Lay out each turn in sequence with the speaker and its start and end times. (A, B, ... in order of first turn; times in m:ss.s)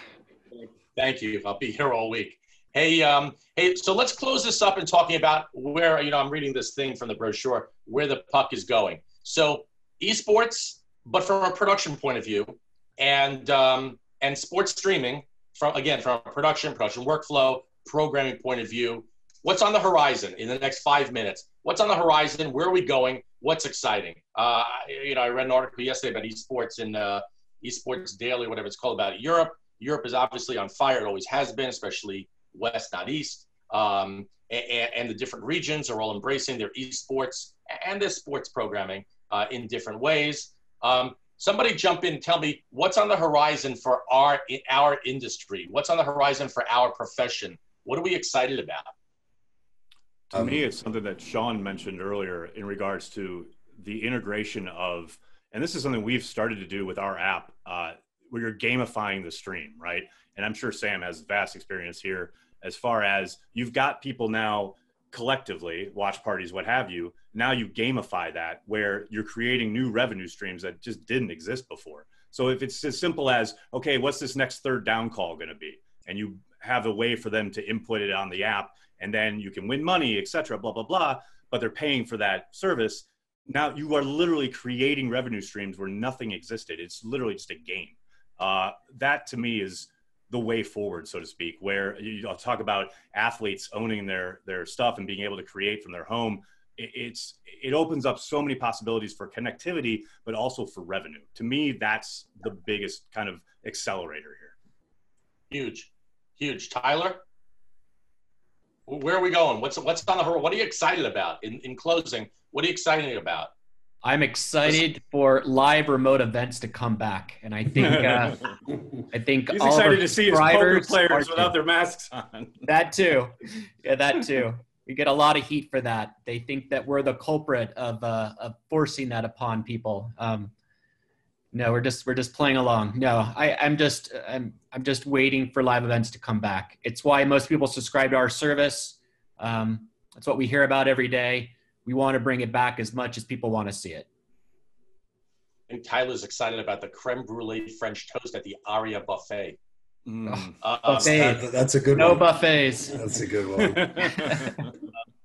0:00.5-0:48.9 A
0:50.3-1:44.5 B
0:50.3-0:50.6 C
1:45.5-1:47.2 A
1:48.9-1:53.5 A
1:54.0-1:58.5 D
1:57.8-1:58.5 B
1:59.1-2:01.5 D
1:59.5-2:02.6 B
2:02.6-2:10.5 D
2:11.5-2:24.1 D
2:25.7-2:29.6 A
2:30.0-2:30.6 B
2:30.2-2:31.4 D
2:30.6-2:31.1 A
2:31.0-2:32.3 C
2:31.9-2:33.0 D
2:32.9-2:34.3 C
2:33.6-2:34.7 B